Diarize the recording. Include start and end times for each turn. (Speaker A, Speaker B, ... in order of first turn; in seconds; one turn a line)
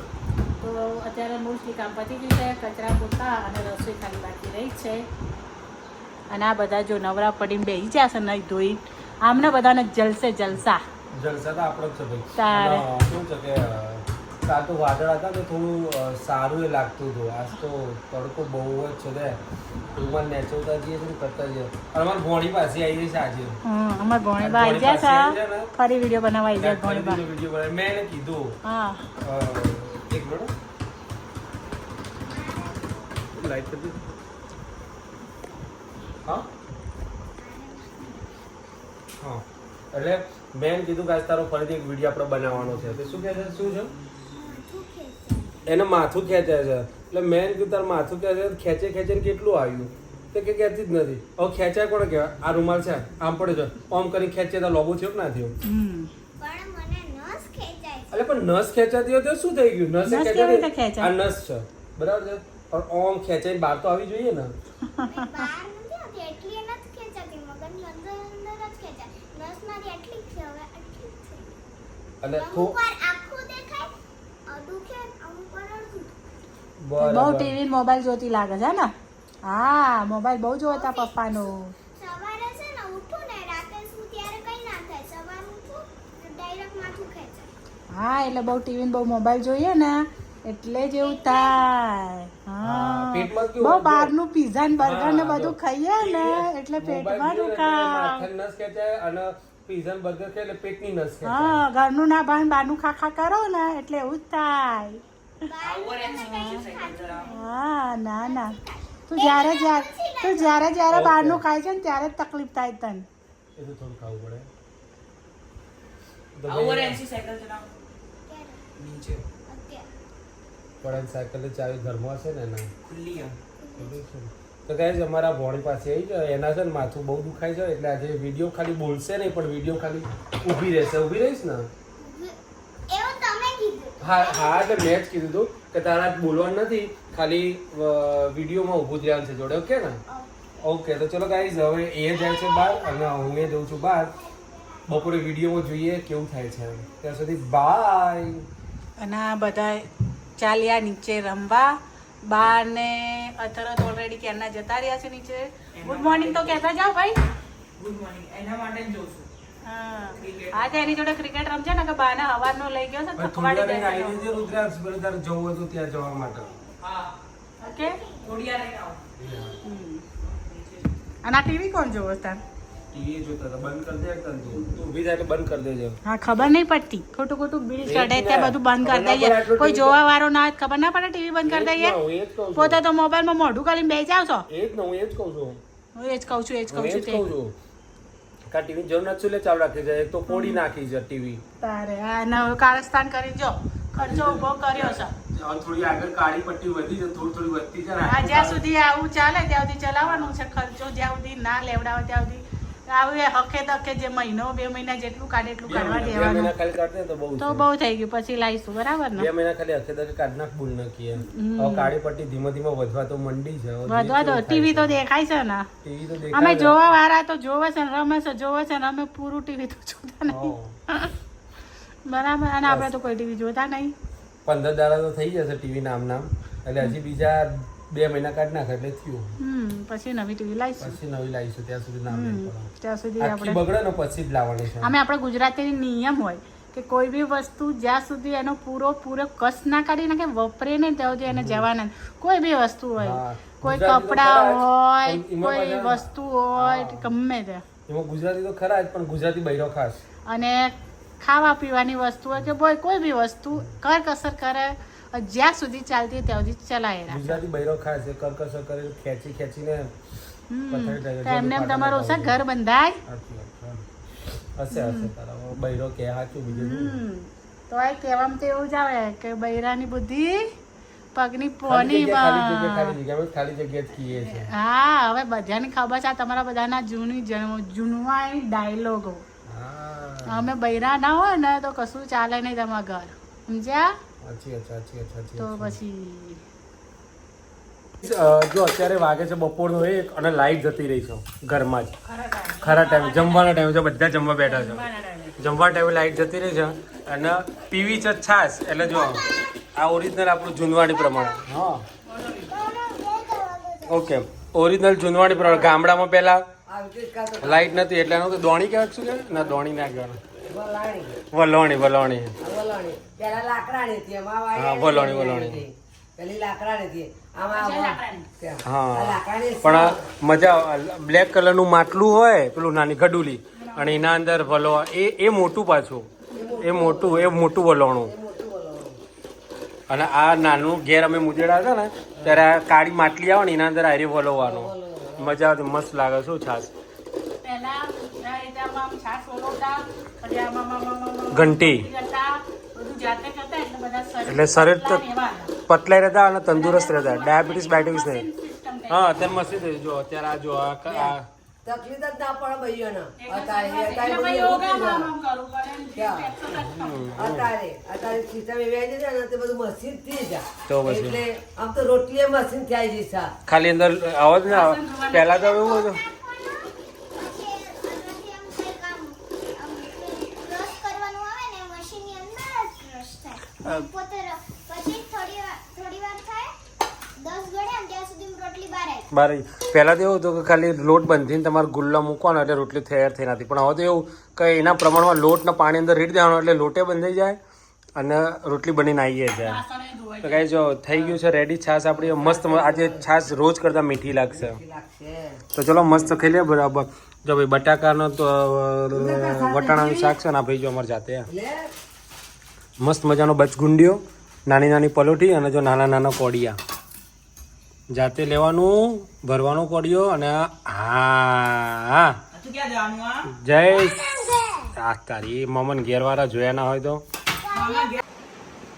Speaker A: 0.6-5.0
Speaker A: 6.3-10.8
Speaker B: 11.1-19.4
Speaker A: 12.4-12.9
Speaker B: 19.9-23.6
Speaker A: 23.6-27.2
Speaker B: 24.4-25.7
Speaker B: 26.6-28.6
Speaker A: 28.6-29.0
Speaker B: 29.2-30.5
Speaker C: 32.3-33.3
Speaker B: 33.3-34.0
Speaker C: 37.4-38.4
Speaker B: 39.2-43.9
Speaker C: 44.3-45.6
Speaker B: 45.7-55.6
Speaker A: 55.6-56.1
Speaker C: 56.4-58.2
Speaker B: 58.1-64.5
Speaker A: 60.1-61.1
Speaker A: 64.9-65.5
Speaker C: 65.0-71.5
Speaker B: 72.2-72.8
Speaker C: 72.3-73.9
Speaker C: 74.5-76.1
Speaker B: 76.8-77.6
Speaker A: 77.0-78.9
Speaker A: 79.5-81.7
Speaker C: 80.7-87.5
Speaker A: 87.9-98.3
Speaker C: 91.0-91.7
Speaker B: 92.6-94.1
Speaker B: 94.8-101.6
Speaker A: 101.3-105.0
Speaker C: 105.5-107.5
Speaker D: 105.6-107.3
Speaker A: 106.1-106.7
Speaker A: 107.2-113.1
Speaker C: 108.2-110.8
Speaker B: 110.9-111.4
Speaker B: 113.6-114.5
Speaker B: 116.4-117.0
Speaker D: 116.5-117.7
Speaker C: 118.3-118.6
Speaker D: 118.8-119.3
Speaker C: 119.5-119.9
Speaker B: 120.8-122.7
Speaker D: 122.9-123.4
Speaker C: 123.6-124.0
Speaker B: 123.8-131.7
Speaker C: 132.0-132.4
Speaker C: 132.9-134.8
Speaker B: 134.0-140.0
Speaker C: 140.1-140.7
Speaker B: 140.6-144.2
Speaker C: 142.8-143.1
Speaker C: 144.4-144.8
Speaker B: 144.9-148.4
Speaker A: 149.0-157.2
Speaker D: 155.8-156.6
Speaker D: 157.8-159.3
Speaker A: 159.6-164.3
Speaker D: 160.2-160.7
Speaker B: 163.2-166.5
Speaker D: 166.8-167.1
Speaker A: 167.6-168.0
Speaker C: 167.6-168.4
Speaker D: 168.2-169.1
Speaker B: 169.2-169.6
Speaker A: 169.6-170.0
Speaker D: 170.2-170.9
Speaker A: 171.2-172.4
Speaker B: 172.9-176.0
Speaker A: 176.1-182.0
Speaker B: 177.8-180.0
Speaker B: 181.4-182.8
Speaker A: 182.6-184.5
Speaker B: 184.5-185.6
Speaker A: 185.9-187.2
Speaker B: 186.7-187.6
Speaker B: 188.5-191.4
Speaker A: 190.3-190.6
Speaker A: 191.6-195.1
Speaker B: 194.0-198.6
Speaker A: 198.1-206.5
Speaker B: 200.0-200.4
Speaker B: 205.7-207.7
Speaker A: 207.4-209.3
Speaker B: 209.2-215.0
Speaker A: 211.2-211.9
Speaker A: 213.9-215.7
Speaker B: 215.8-216.9
Speaker A: 216.3-221.1
Speaker B: 220.3-220.8
Speaker A: 222.1-223.9
Speaker B: 222.7-223.0
Speaker B: 224.5-229.3
Speaker A: 229.4-231.0
Speaker B: 230.8-234.9
Speaker A: 232.1-233.6
Speaker A: 234.8-247.6
Speaker B: 241.3-241.7
Speaker B: 243.0-246.1
Speaker B: 246.6-247.1
Speaker B: 247.9-250.0
Speaker A: 250.3-257.4
Speaker B: 257.1-259.9
Speaker A: 260.5-263.0
Speaker B: 260.7-262.4
Speaker B: 263.1-263.8
Speaker B: 264.6-267.0
Speaker A: 264.7-265.1
Speaker A: 266.5-270.5
Speaker A: 271.1-273.0
Speaker B: 271.7-274.5
Speaker A: 274.4-279.2
Speaker B: 279.5-280.5
Speaker A: 280.3-283.9
Speaker B: 284.2-285.8
Speaker A: 285.4-286.4
Speaker B: 288.0-291.9
Speaker A: 292.0-293.5
Speaker B: 292.6-294.9
Speaker A: 294.4-295.4
Speaker B: 295.4-301.9
Speaker A: 302.1-302.6
Speaker C: 302.5-304.0
Speaker B: 303.9-306.4
Speaker E: 306.7-307.8
Speaker B: 307.4-310.2
Speaker E: 310.5-311.2
Speaker B: 311.3-312.4
Speaker E: 312.4-320.1
Speaker B: 314.6-315.6
Speaker A: 317.5-318.3
Speaker B: 318.6-328.1
Speaker A: 323.6-324.1
Speaker E: 326.3-329.0
Speaker B: 329.9-336.7
Speaker E: 332.2-332.4
Speaker E: 334.4-335.3
Speaker A: 337.4-345.5
Speaker B: 341.3-341.9
Speaker B: 344.3-345.1
Speaker B: 345.7-348.3
Speaker A: 346.5-349.2
Speaker B: 348.9-351.3
Speaker E: 350.9-351.1
Speaker E: 351.6-355.1
Speaker A: 353.2-357.1
Speaker E: 356.0-356.3
Speaker B: 356.5-357.5
Speaker E: 357.2-363.3
Speaker B: 360.7-361.2
Speaker B: 363.5-366.0
Speaker A: 364.4-365.3
Speaker C: 365.1-376.6
Speaker C: 377.2-379.1
Speaker B: 379.1-387.4
Speaker B: 388.0-389.6
Speaker A: 389.4-390.5
Speaker B: 390.2-394.6
Speaker E: 391.9-393.1
Speaker E: 394.3-395.4
Speaker B: 395.5-401.3
Speaker E: 398.9-400.1
Speaker E: 401.3-401.7
Speaker B: 402.8-406.6
Speaker B: 407.9-412.2
Speaker D: 412.3-413.3
Speaker B: 413.2-414.0
Speaker C: 413.8-414.7
Speaker B: 414.8-417.0
Speaker C: 417.4-418.0
Speaker D: 417.5-418.0